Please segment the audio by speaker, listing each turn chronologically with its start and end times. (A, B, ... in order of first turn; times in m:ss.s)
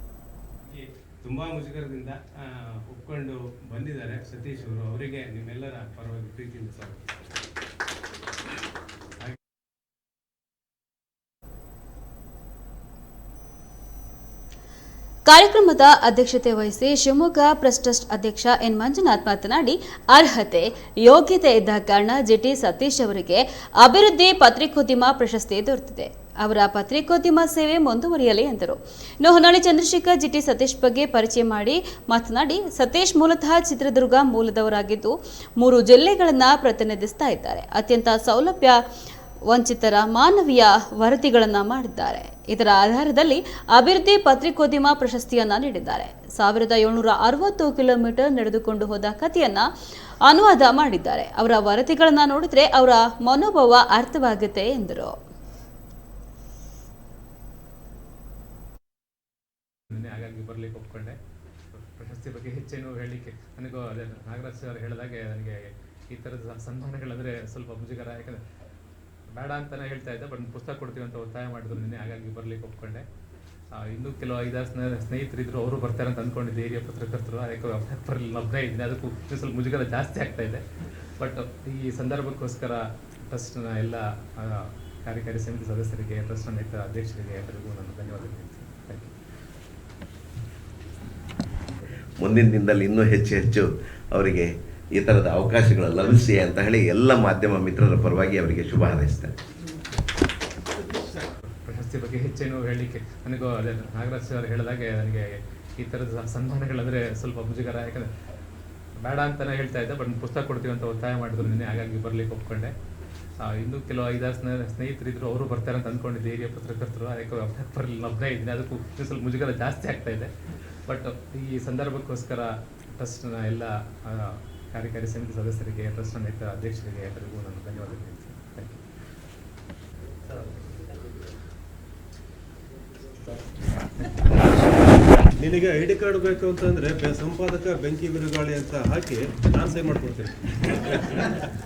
0:00.7-0:07.0 A
0:04.5-0:05.9 B
0:15.2-0:38.8 C
0:39.5-0:49.7 C
0:50.2-0:55.1 C
0:59.9-1:01.2 D
1:01.7-1:08.4 D
1:09.3-1:13.0 D
1:13.7-1:20.6 D
1:21.2-1:29.1 D
1:32.2-1:39.3 E
1:41.6-1:48.1 D
1:49.0-1:52.7 D
1:53.4-2:00.3 D
2:00.9-2:08.8 D
2:15.4-2:21.4 B